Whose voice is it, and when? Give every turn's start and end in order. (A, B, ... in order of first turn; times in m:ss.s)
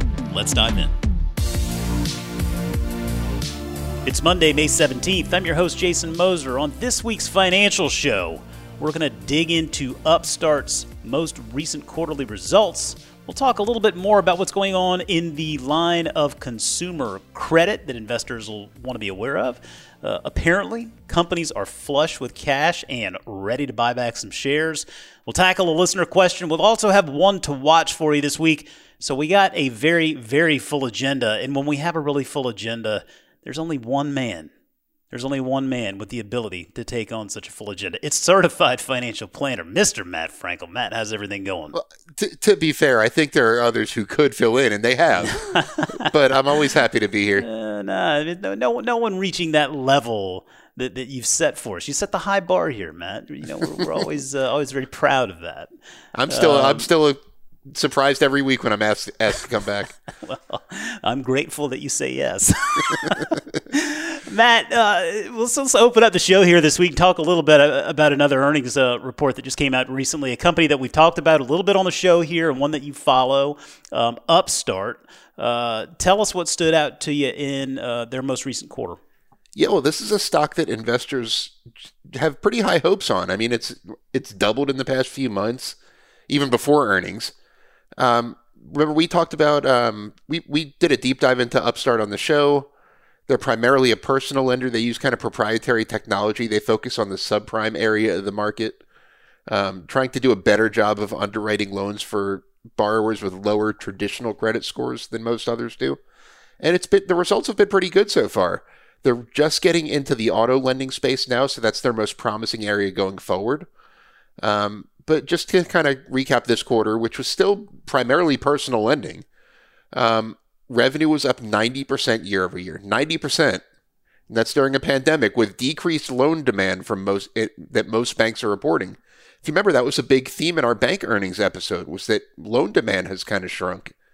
0:00.3-0:00.9 A
0:04.0-0:34.5 A
0:35.1-0:41.8 A
0:41.7-0:47.5 B
0:45.5-0:46.0 A
0:47.4-0:55.7 A
0:56.1-0:57.2 B
0:56.3-0:56.9 A
0:57.7-0:59.9 B
1:00.2-1:19.0 A
1:19.5-1:25.8 B
1:26.3-1:27.3 B
1:28.0-1:32.7 B
1:33.3-1:38.8 B
1:39.5-1:46.0 B
1:46.6-1:53.7 B
1:54.4-1:59.2 B
1:59.9-2:03.6 B
2:04.3-2:13.9 B